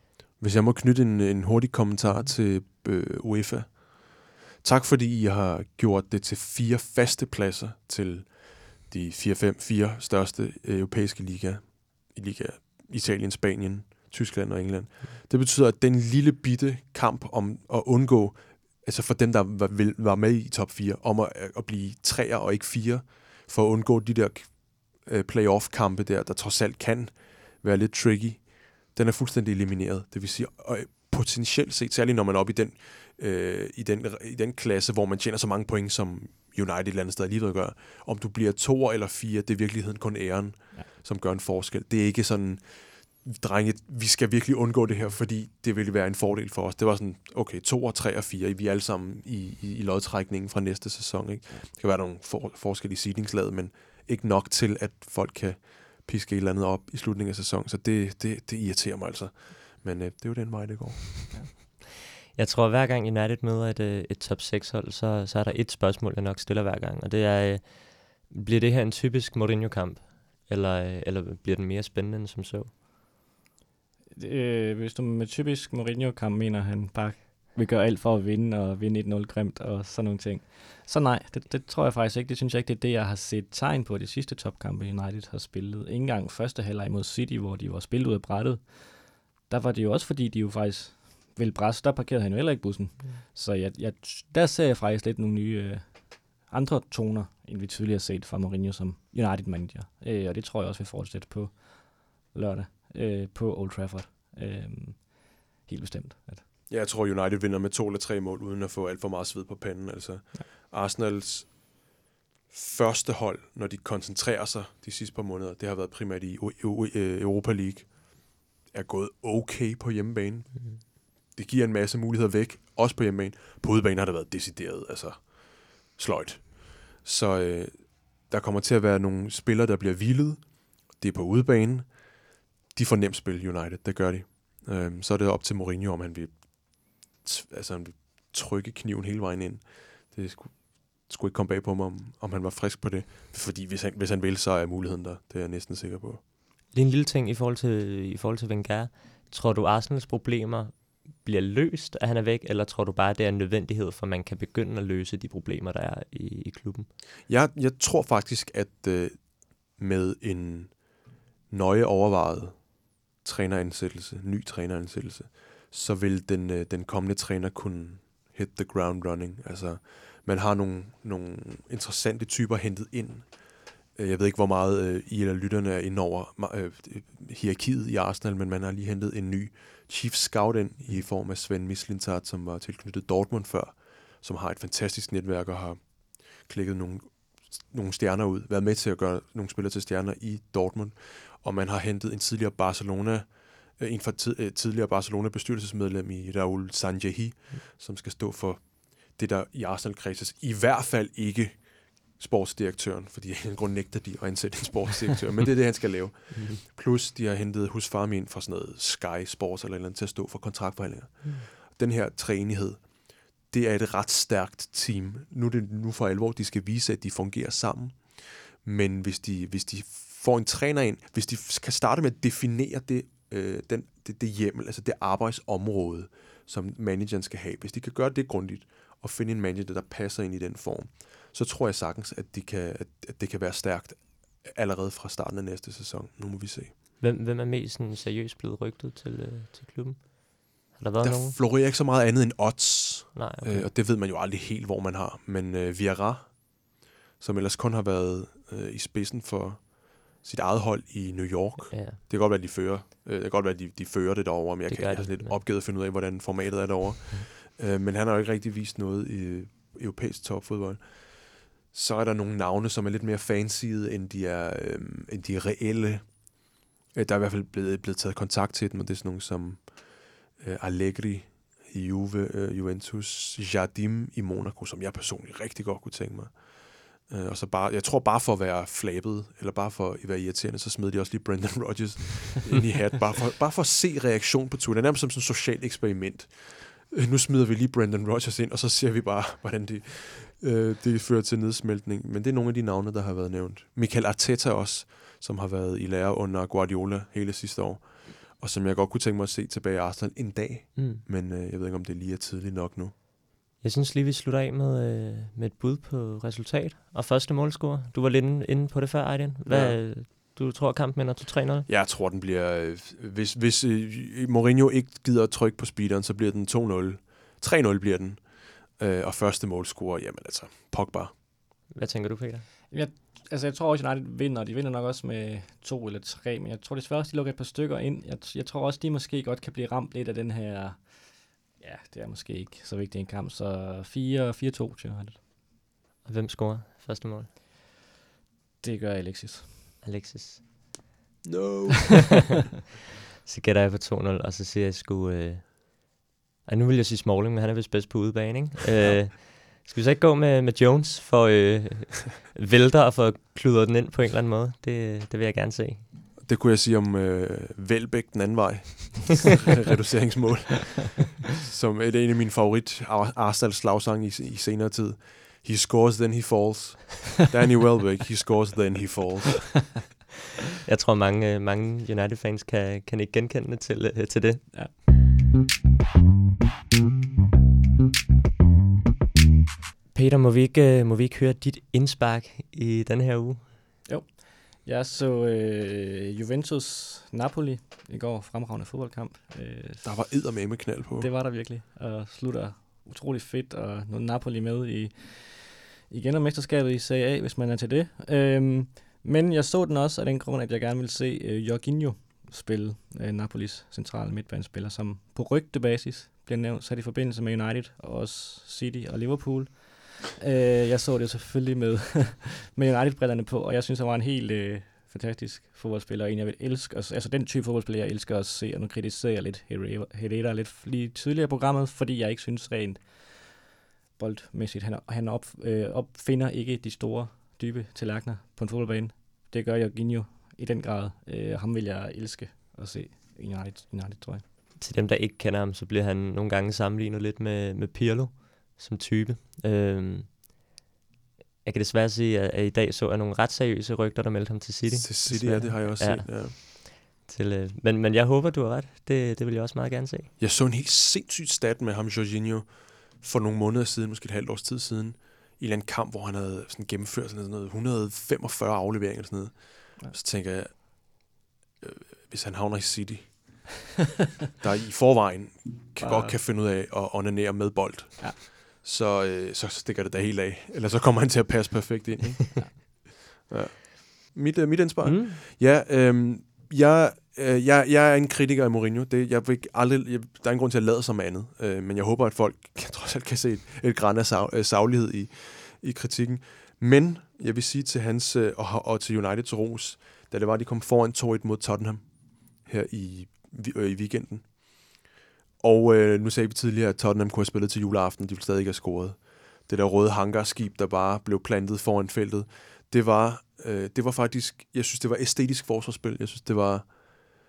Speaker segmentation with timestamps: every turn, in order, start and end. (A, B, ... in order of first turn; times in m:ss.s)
0:00.4-1:01.4 A
1:02.3-1:12.7 B
1:14.1-1:46.4 C
1:46.7-1:51.9 A
1:52.5-2:26.2 A
2:26.7-2:36.9 B
2:37.3-3:56.7 A
3:26.3-3:26.6 B
3:57.0-4:01.4 B
4:01.0-5:03.0 A
4:03.2-4:03.7 B
4:11.7-4:12.0 B
4:14.7-4:15.4 B
5:00.8-5:01.0 B
5:03.6-5:11.7 B
5:09.5-5:09.8 A
5:11.7-5:21.1 A
5:21.7-5:22.5 B
5:22.7-5:35.2 C
5:36.0-5:37.3 B
5:38.6-5:39.6 C
5:39.8-5:40.4 B
5:41.2-5:42.3 A
5:43.2-5:55.9 B
5:56.2-6:09.8 A
6:10.6-6:14.5 B
6:19.9-6:23.5 B
6:23.9-7:03.3 C
6:29.8-6:31.1 A
7:04.0-7:14.2 C
7:14.6-7:20.2 B
7:21.4-7:30.1 B
7:24.7-7:26.4 A
7:30.2-7:43.5 A
7:44.4-8:14.8 A
7:45.8-7:46.2 C
7:54.8-7:55.2 B
8:15.4-8:26.8 A